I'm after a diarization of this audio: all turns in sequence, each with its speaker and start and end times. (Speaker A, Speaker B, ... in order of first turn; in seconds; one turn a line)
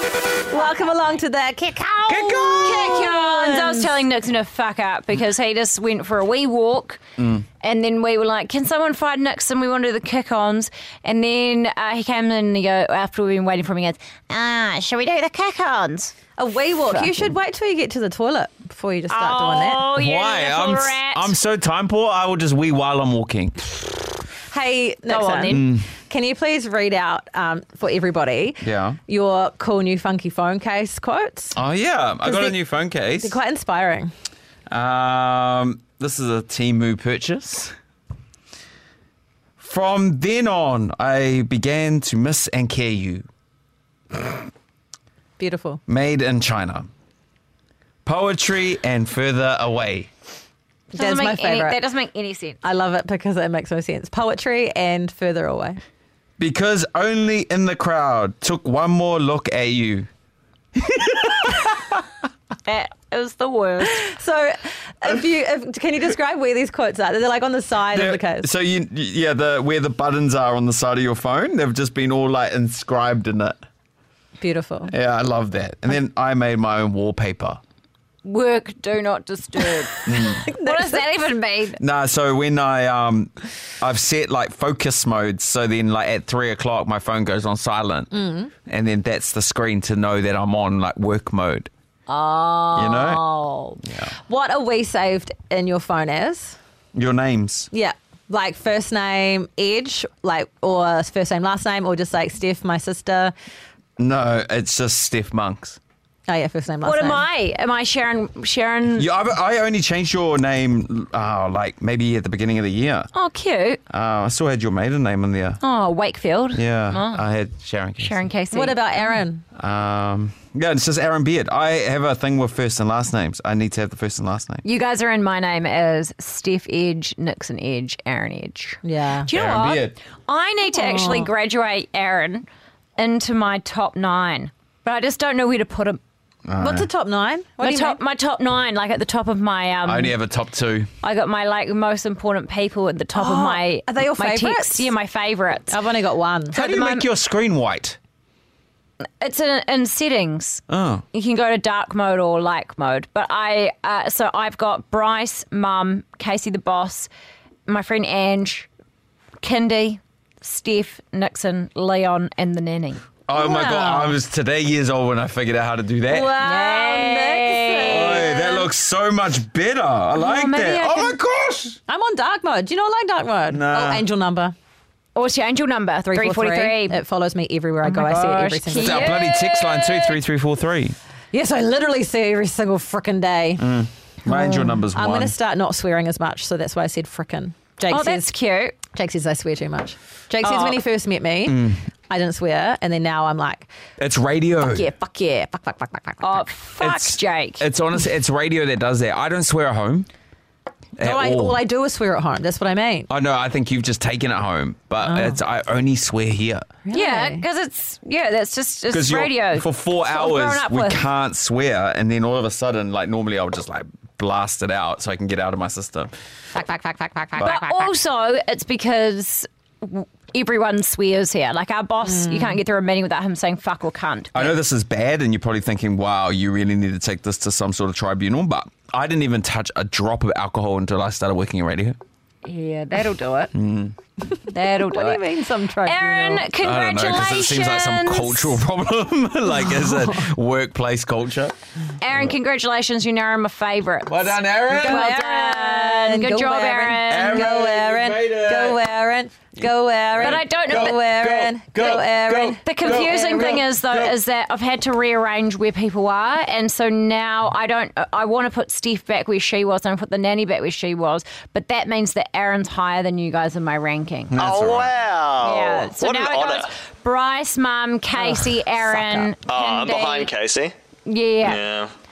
Speaker A: 0.5-3.9
Speaker B: 2.1-3.1
Speaker C: 2.6-7.0
Speaker B: 7.2-7.5
Speaker C: 7.6-16.1
Speaker A: 16.4-19.9
Speaker C: 16.9-17.3
Speaker C: 19.1-21.4
Speaker B: 19.9-23.8
Speaker A: 24.5-31.6
Speaker C: 25.1-25.6
Speaker B: 25.5-25.9
Speaker B: 28.6-29.0
Speaker B: 31.6-33.4
Speaker A: 32.2-34.1
Speaker B: 34.7-37.7
Speaker B: 39.6-43.2
Speaker A: 45.4-45.8
Speaker B: 45.9-46.9
Speaker B: 48.0-50.1
Speaker C: 50.9-52.6
Speaker A: 51.0-51.8
Speaker A: 52.6-55.8
Speaker B: 56.4-60.1
Speaker B: 60.8-62.0
Speaker C: 62.7-64.1
Speaker A: 64.0-68.5
Speaker B: 67.9-73.6
Speaker A: 74.4-74.9
Speaker B: 74.9-77.6
Speaker C: 78.2-81.8
Speaker B: 80.1-80.5
Speaker A: 80.4-81.0
Speaker B: 81.8-88.1
Speaker A: 88.1-88.5
Speaker B: 88.7-91.7
Speaker C: 92.1-93.8
Speaker B: 92.7-93.2
Speaker B: 93.8-94.1
Speaker A: 94.3-96.6
Speaker B: 97.0-97.7
Speaker A: 97.7-103.3
Speaker B: 104.0-105.8
Speaker A: 106.3-107.2
Speaker C: 106.8-109.1
Speaker B: 108.9-113.1
Speaker C: 113.1-113.8
Speaker B: 113.9-115.6
Speaker C: 115.6-117.2
Speaker B: 116.5-118.3
Speaker C: 118.0-119.1
Speaker A: 118.5-119.5
Speaker B: 119.5-124.6
Speaker C: 124.6-132.5
Speaker A: 128.8-129.3
Speaker B: 129.3-130.0
Speaker A: 130.7-131.3
Speaker C: 133.0-136.0
Speaker B: 136.5-136.9
Speaker A: 136.6-138.0
Speaker C: 137.6-140.2
Speaker B: 139.8-140.9
Speaker C: 141.0-145.8
Speaker A: 143.1-144.9
Speaker A: 145.7-146.6
Speaker C: 146.5-147.1
Speaker B: 146.5-148.0
Speaker C: 149.2-150.6
Speaker B: 150.7-151.1
Speaker C: 151.1-157.1
Speaker C: 157.7-158.7
Speaker C: 159.4-163.0
Speaker B: 163.3-166.3
Speaker A: 163.3-164.2
Speaker A: 166.1-168.7
Speaker C: 166.4-168.6
Speaker B: 167.9-171.8
Speaker C: 170.2-171.2
Speaker A: 171.9-174.6
Speaker B: 173.5-174.1
Speaker C: 175.2-177.0
Speaker A: 176.0-179.2
Speaker C: 177.8-180.1
Speaker B: 178.8-181.0
Speaker A: 181.3-183.7
Speaker B: 183.6-185.3
Speaker A: 184.2-193.7
Speaker C: 187.9-188.8
Speaker C: 190.4-190.8
Speaker B: 191.5-191.8
Speaker B: 194.0-194.9
Speaker A: 194.6-196.5
Speaker C: 196.2-197.6
Speaker B: 196.8-200.1
Speaker B: 201.0-201.6
Speaker A: 201.0-203.1
Speaker B: 203.1-206.7
Speaker A: 205.0-205.4
Speaker A: 206.8-207.5
Speaker C: 206.9-211.0
Speaker B: 208.9-216.1
Speaker A: 216.6-217.9
Speaker C: 217.4-224.5
Speaker B: 217.4-217.6
Speaker A: 222.1-222.6
Speaker B: 224.3-232.0
Speaker C: 232.4-233.5
Speaker B: 233.5-233.9
Speaker A: 234.3-236.5
Speaker C: 234.5-238.6
Speaker B: 236.6-241.6
Speaker A: 239.7-240.2
Speaker C: 242.0-247.5
Speaker B: 244.1-245.1
Speaker A: 244.7-253.0
Speaker B: 247.1-248.8
Speaker B: 249.6-254.2
Speaker C: 250.2-251.0
Speaker C: 252.6-264.3
Speaker B: 264.3-265.0
Speaker D: 264.4-266.7
Speaker C: 265.4-270.3
Speaker A: 268.2-269.3
Speaker D: 269.5-270.7
Speaker C: 271.1-271.6
Speaker D: 271.4-271.9